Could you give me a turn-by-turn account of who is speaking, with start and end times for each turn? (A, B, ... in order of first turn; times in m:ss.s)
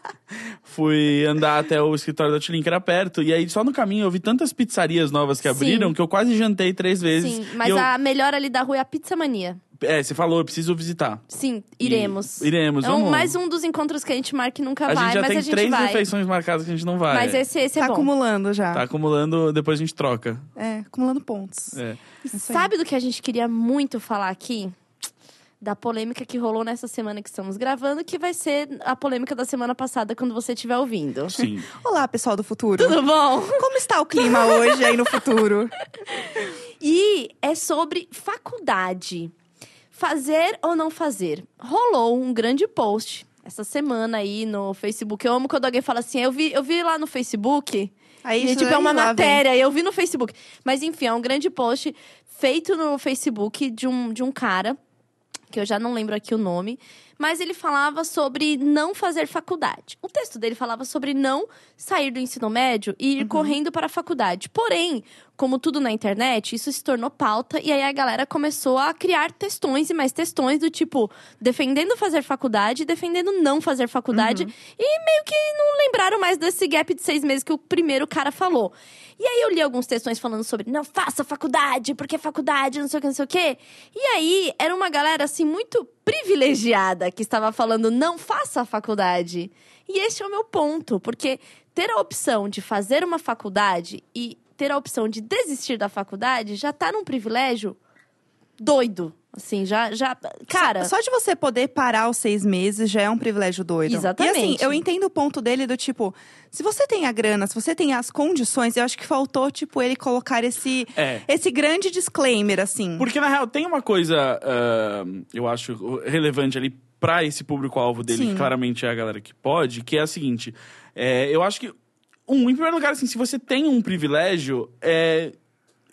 0:00.3-0:07.9 A
0:05.4-0:05.9 B
0:07.2-0:09.6 B
0:09.8-0:11.2 A
0:11.3-0:16.0 B
0:11.8-0:13.4 A
0:14.9-0:17.4 A
0:17.1-0:18.1 B
0:17.8-0:18.8 C
0:18.7-0:20.5 A
0:20.6-0:21.8 C
0:21.7-0:22.0 A
0:22.2-0:24.7 B
0:22.3-0:22.7 C
0:25.6-0:31.4 B
0:31.3-0:31.7 A
0:31.7-0:33.0 C
0:32.8-0:35.0 B
0:33.5-0:35.7 C
0:36.1-0:39.3 B
0:39.9-0:54.8 B
0:48.2-0:49.4 C
0:55.5-1:37.8 B
1:03.2-1:03.6 C
1:14.1-1:14.5 C
1:38.6-1:40.9 B
1:40.5-1:53.1 C
1:43.9-1:44.8 B
1:51.0-1:51.2 A
1:53.0-2:01.7 A
1:58.1-1:58.5 C
2:02.3-2:05.4 A